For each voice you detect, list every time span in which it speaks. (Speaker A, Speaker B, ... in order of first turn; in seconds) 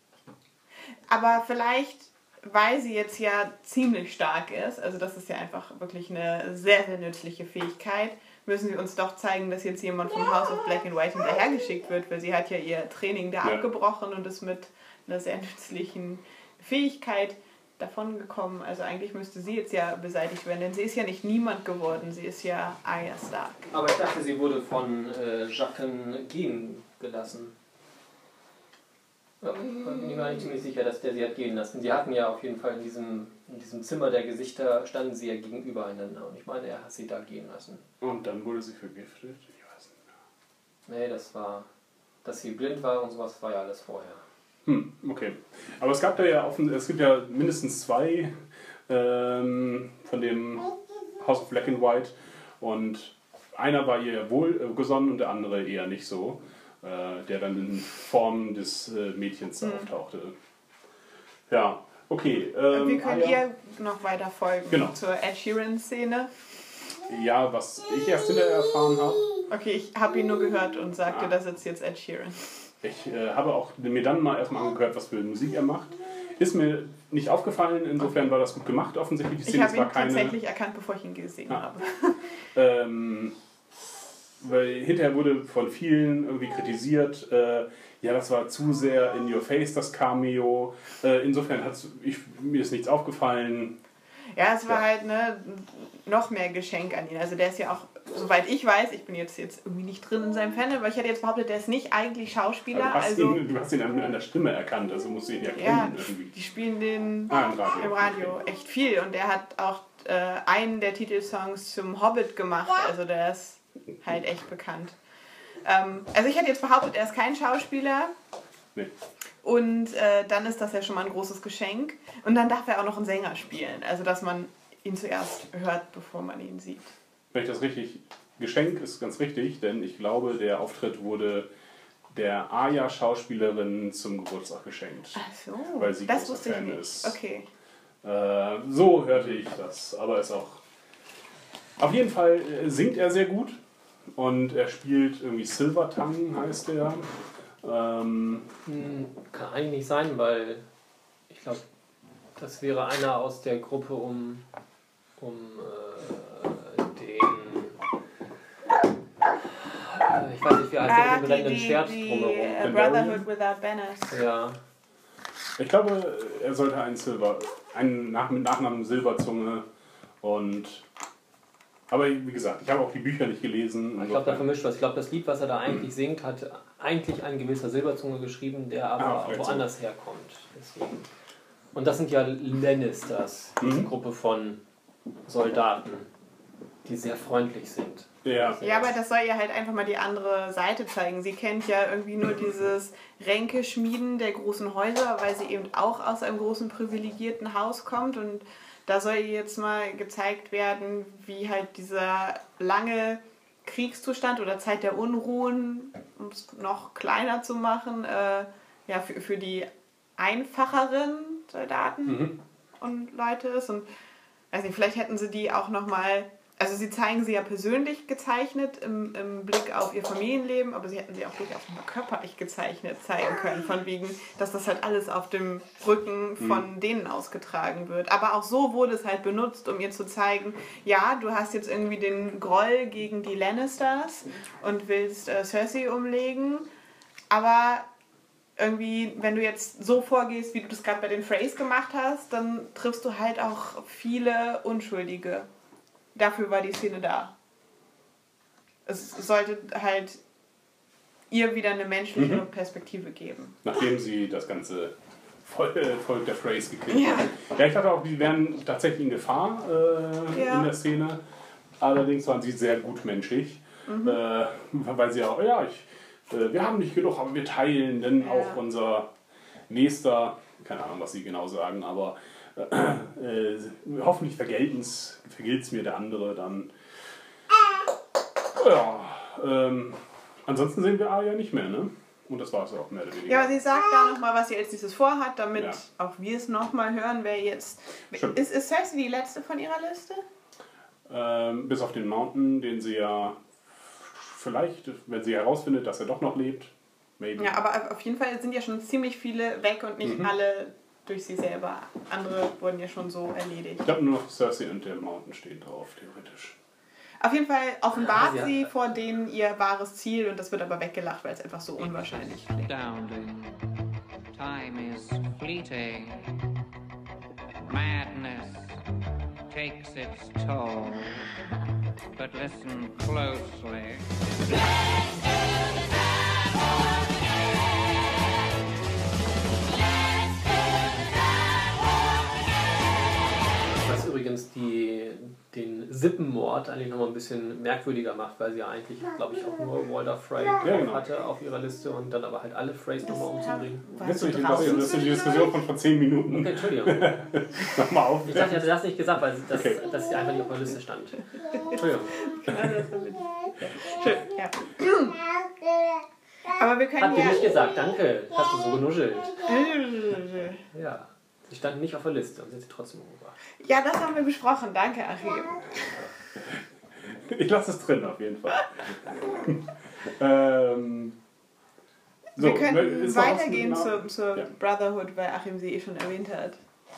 Speaker A: 1.1-23.7, 59.6-59.9, 62.7-66.3, 69.5-72.4, 79.4-82.3, 94.3-103.4, 105.5-115.0, 115.6-118.1, 119.4-126.9, 135.1-137.5, 160.8-164.2, 188.6-213.9, 214.5-236.7, 237.3-237.9, 238.6-245.5, 246.1-247.3, 248.8-250.2, 251.3-253.6, 256.9-257.3, 260.3-260.7, 263.9-264.2, 268.2-268.6, 283.3-290.2, 297.4-303.9, 307.2-312.7, 343.1-345.5, 351.7-355.2, 356.5-357.5, 359.4-360.6, 363.6-365.9, 372.4-376.6
Speaker B: 23.7-27.5, 29.4-37.8, 40.9-41.7, 42.2-44.2, 148.7-150.6, 151.3-151.6, 152.4-154.4, 155.2-157.8, 159.6-162.7, 164.1-164.6, 174.0-181.0, 181.7-184.6, 185.2-186.1, 186.8-188.9, 307.9-308.7, 333.6-343.9, 346.3-347.1, 348.2-352.3, 357.0-359.4, 360.7-363.4
Speaker C: 38.0-39.9, 44.6-48.3, 48.9-60.3, 61.5-63.4, 64.7-65.0, 67.1-69.3, 72.8-80.4, 82.5-83.3, 84.4-93.8, 102.7-106.3, 107.3-108.3, 127.3-131.5, 132.1-135.2, 135.8-137.2, 138.0-140.6, 141.8-143.6, 144.2-147.1, 147.6-148.5, 162.6-163.2, 165.6-169.6, 170.2-170.8, 171.9-174.4, 179.0-179.7, 183.6-183.9, 188.2-188.6, 212.1-212.3, 226.4-226.6, 252.2-252.4, 253.6-261.2, 261.8-269.1, 269.7-276.7, 278.5-283.5, 291.1-297.5, 300.0-300.3, 303.8-306.6, 340.6-341.0, 344.0-348.7, 349.5-349.9, 366.4-371.1, 372.4-374.5
Speaker D: 312.6-313.6, 314.3-316.3, 317.7-318.8, 319.5-321.2, 322.1-324.1